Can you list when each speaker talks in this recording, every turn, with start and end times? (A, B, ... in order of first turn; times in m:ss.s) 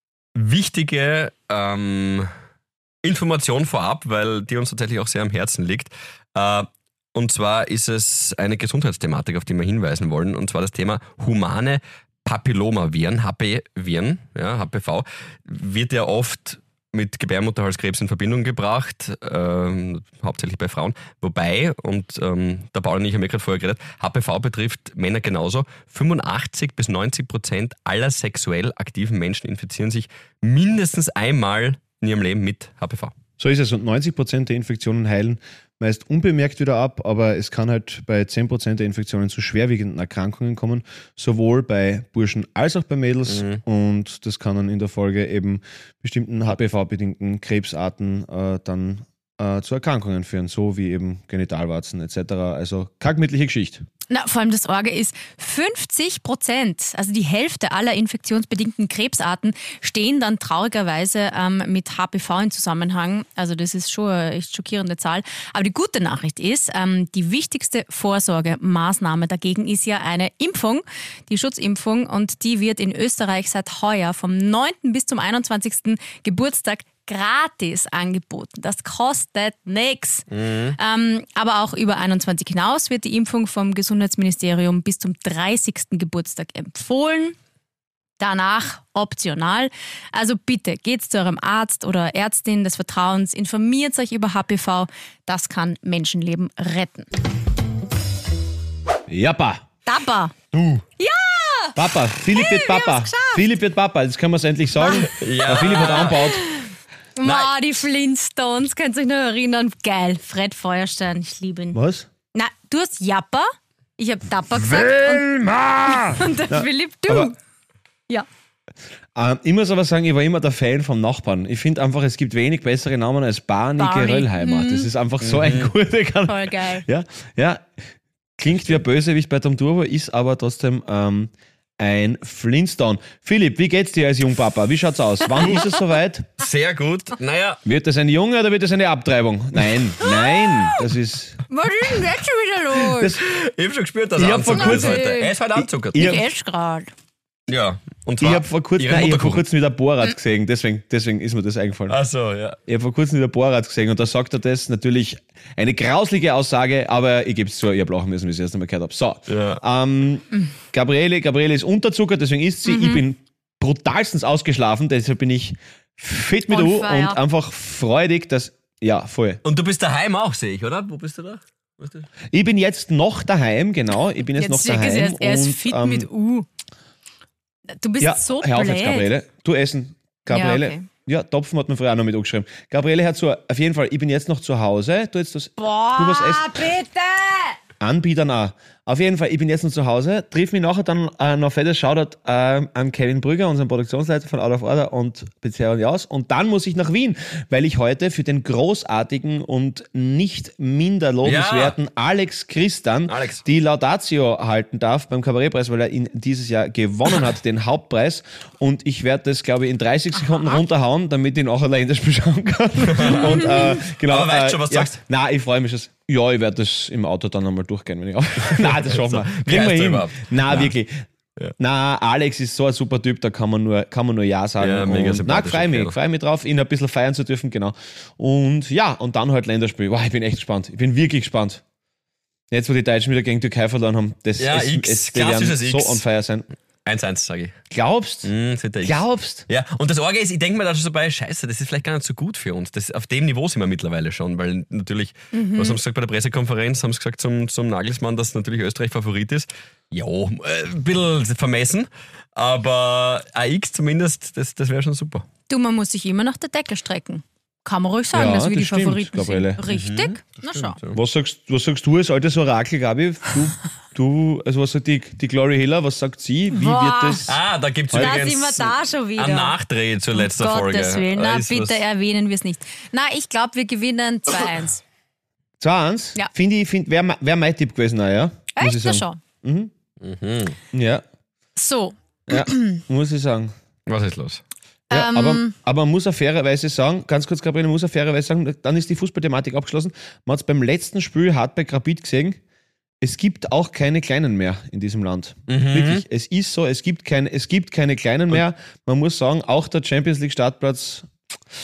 0:00.3-0:02.3 A
0:03.0-0:33.1 A
0:33.4-0:53.8 B
0:43.3-0:43.6 A
0:54.1-1:27.4 C
1:20.3-1:20.8 A
1:28.2-1:37.1 C
1:39.1-1:39.6 B
1:39.8-1:40.3 C
1:40.5-1:40.8 A
1:41.0-1:43.4 C
1:41.8-1:46.4 B
1:44.8-1:45.1 C
1:45.0-1:46.4 A
1:46.0-1:51.8 C
1:47.2-1:47.5 A
1:51.7-1:52.1 B
1:52.3-1:55.3 C
1:54.5-1:57.3 B
1:55.8-1:57.4 C
1:59.1-2:07.6 B
2:03.8-2:04.9 C
2:05.2-2:05.7 A
2:06.3-2:06.8 C
2:08.4-2:16.3 B
2:15.4-2:15.7 A
2:16.4-2:17.6 A
2:17.6-2:21.4 B
2:20.0-2:20.8 C
2:21.5-2:23.2 C
2:23.2-2:26.2 A
2:24.2-2:25.0 B
2:24.5-2:25.3 C
2:25.6-2:26.2 B
2:25.9-2:26.9 C
2:27.5-2:29.4 A
2:28.2-2:32.0 B
2:31.9-2:32.6 A
2:32.7-2:49.4 B
2:39.3-2:39.6 A
2:42.6-2:43.0 C
2:46.5-2:47.2 C
2:49.4-2:52.1 A
2:52.3-2:56.1 B
2:54.3-2:56.5 C
2:57.8-2:59.1 C
2:58.0-3:06.7 B
3:00.3-3:00.9 C
3:05.6-3:07.6 C
3:07.8-3:41.0 B
3:21.2-3:21.7 A
3:23.1-3:23.4 A
3:32.8-3:35.0 A
3:38.4-3:40.7 A
3:41.6-3:51.6 B
3:44.6-3:46.0 A
3:52.5-3:56.5 B
3:54.4-3:56.0 A
3:56.8-3:57.6 A
3:57.7-3:58.3 B
3:58.2-4:15.2 A
3:58.8-3:59.5 B
4:05.3-4:05.8 C
4:15.5-4:20.8 C
4:18.1-4:19.6 B
4:19.7-4:21.0 A
4:20.9-4:27.4 B
4:26.5-4:27.3 C
4:27.3-4:31.8 A
4:27.9-4:28.2 B
4:27.9-4:29.6 C
4:30.1-4:34.8 C
4:35.6-4:39.7 B
4:38.5-4:39.2 C
4:40.0-4:40.6 A
4:40.7-4:41.0 B
4:41.6-4:42.8 C
4:42.3-4:43.5 B
4:43.9-4:44.4 A
4:44.9-4:45.5 C
4:44.9-4:52.4 B
4:53.0-5:01.1 B
4:55.5-4:56.0 A